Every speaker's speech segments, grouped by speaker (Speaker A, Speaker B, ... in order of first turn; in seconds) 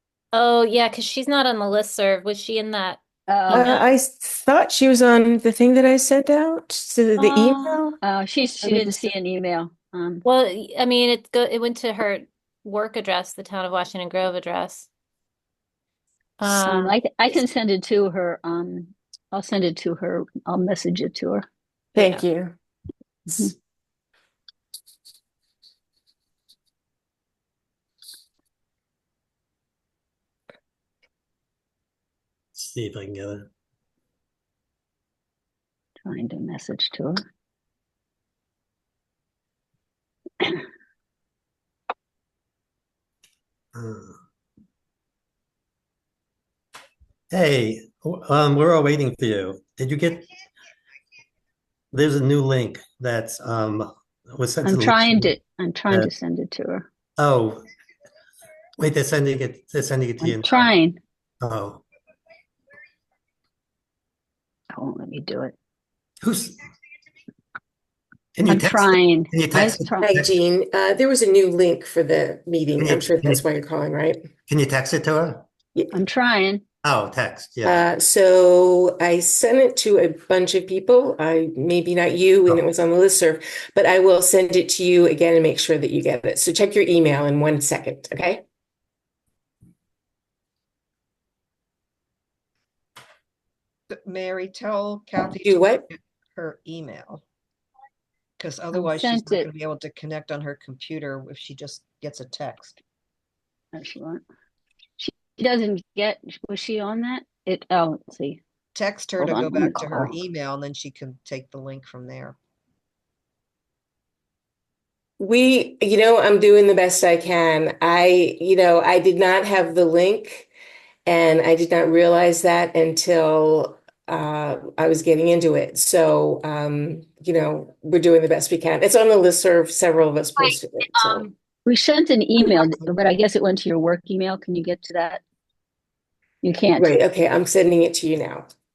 Speaker A: 0.3-3.9, 10.2-14.9, 16.4-17.0, 22.0-22.2
Speaker B: 3.3-3.7, 7.2-10.2, 16.4-21.4, 36.0-37.2, 54.6-56.9, 60.2-61.0, 64.7-65.5, 68.5-70.1, 75.9-76.6, 98.7-99.5, 103.7-104.2, 105.0-108.4, 109.2-110.1, 131.7-135.2, 136.4-137.0
Speaker C: 3.5-8.0, 8.6-8.9, 21.9-22.5, 70.0-74.2, 77.6-88.4, 95.4-95.8, 115.2-120.5, 121.0-131.3, 136.8-138.5
Speaker D: 32.5-33.5, 43.7-44.2, 47.3-50.2, 51.9-55.3, 57.2-57.6, 58.8-60.7, 61.4-61.8, 66.2-66.6, 68.3-70.3, 72.8-73.4, 74.5-75.4, 76.8-77.8
Speaker E: 94.0-97.2, 98.4-102.8, 108.7-112.3